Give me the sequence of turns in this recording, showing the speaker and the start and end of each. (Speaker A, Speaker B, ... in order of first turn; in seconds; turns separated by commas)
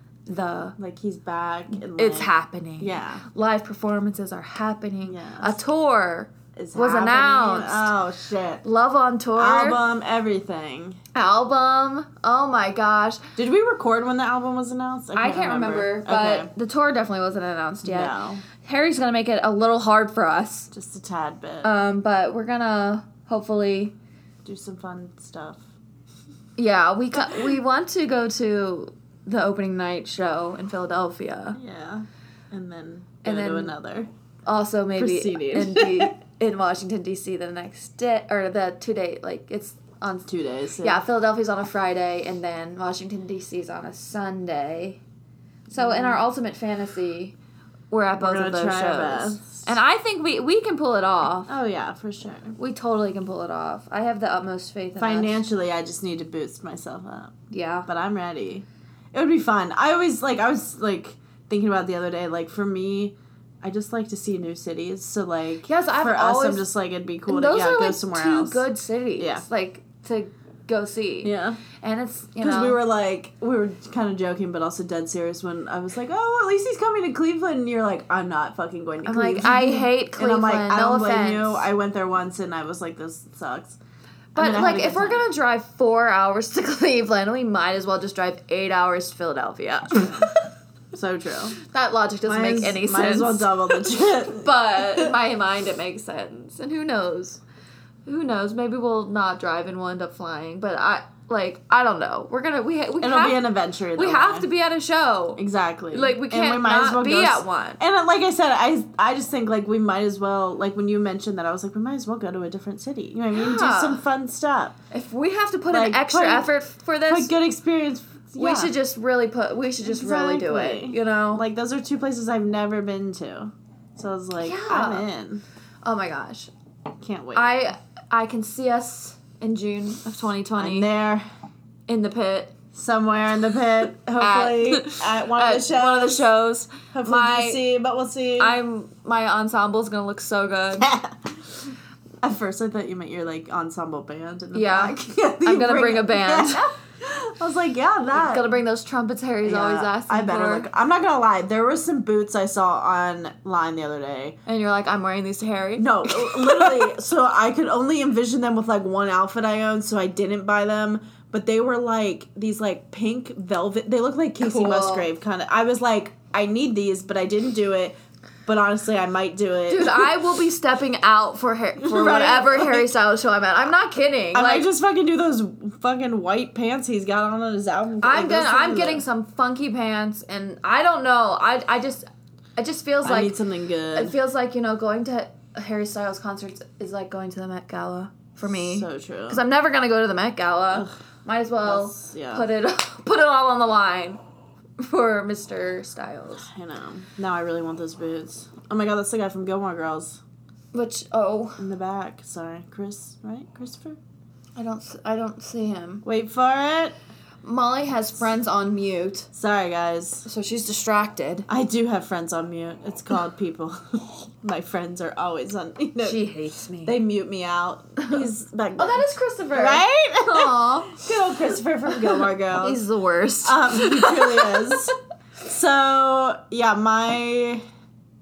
Speaker A: 0.3-0.8, Speaker B: 0.8-3.2, Speaker A: 1.9-7.9, Speaker B: 5.1-5.6, Speaker B: 6.5-8.7, Speaker A: 8.6-9.8, Speaker B: 9.4-11.0, Speaker A: 11.2-13.2, Speaker B: 13.4-16.5, Speaker A: 15.2-20.7, Speaker B: 17.8-18.4, Speaker B: 20.7-21.7, Speaker A: 21.6-23.9, Speaker B: 24.4-25.6, Speaker A: 26.6-31.6, Speaker B: 31.6-34.1, Speaker A: 33.2-33.7, Speaker A: 34.5-40.3, Speaker B: 35.0-36.1, Speaker B: 40.3-41.0, Speaker A: 40.8-45.0, Speaker A: 45.7-47.4, Speaker B: 45.7-46.2, Speaker A: 47.9-51.5, Speaker B: 48.2-49.7, Speaker B: 51.5-52.6, Speaker A: 52.6-55.4, Speaker B: 55.0-57.4, Speaker A: 57.5-57.9, Speaker B: 57.9-68.6, Speaker A: 65.7-66.7, Speaker A: 67.3-72.8, Speaker B: 69.2-69.5, Speaker B: 71.2-71.6, Speaker B: 72.4-83.8, Speaker A: 79.0-81.7, Speaker B: 84.3-85.2, Speaker A: 84.4-90.3, Speaker B: 90.0-90.3, Speaker B: 90.9-91.6, Speaker A: 91.7-97.4, Speaker B: 92.3-94.5, Speaker A: 98.1-103.4, Speaker B: 103.0-104.5, Speaker A: 104.0-107.8, Speaker B: 105.4-114.8, Speaker A: 113.3-114.0, Speaker A: 114.9-117.3, Speaker B: 115.7-116.5, Speaker B: 117.1-118.7, Speaker A: 118.4-121.5, Speaker B: 119.8-125.4, Speaker A: 124.4-125.1, Speaker A: 125.8-126.5, Speaker B: 127.0-127.6, Speaker A: 127.3-130.9, Speaker B: 130.6-131.3, Speaker A: 131.9-132.5, Speaker B: 132.7-136.2, Speaker A: 134.2-137.6, Speaker B: 136.9-138.6, Speaker A: 138.4-140.9, Speaker B: 140.8-141.1, Speaker B: 142.2-148.6, Speaker A: 144.5-146.7, Speaker A: 148.2-150.7, Speaker B: 149.4-154.4, Speaker A: 154.5-156.9, Speaker B: 155.8-170.1, Speaker A: 164.4-165.1, Speaker A: 169.7-174.7, Speaker B: 171.8-172.9, Speaker B: 174.3-179.0, Speaker A: 178.0-183.4, Speaker B: 183.1-184.2, Speaker A: 183.9-194.2, Speaker B: 188.5-189.4, Speaker B: 191.6-192.5, Speaker A: 194.8-196.5, Speaker B: 196.5-200.2, Speaker A: 200.7-201.6, Speaker B: 201.6-204.0, Speaker A: 204.6-206.0, Speaker B: 206.1-207.0, Speaker A: 207.4-209.3, Speaker B: 209.3-210.3, Speaker A: 210.2-211.5, Speaker B: 211.5-216.2, Speaker A: 216.0-216.9, Speaker B: 216.8-222.8, Speaker A: 218.8-221.1, Speaker A: 222.0-224.7, Speaker B: 223.4-227.7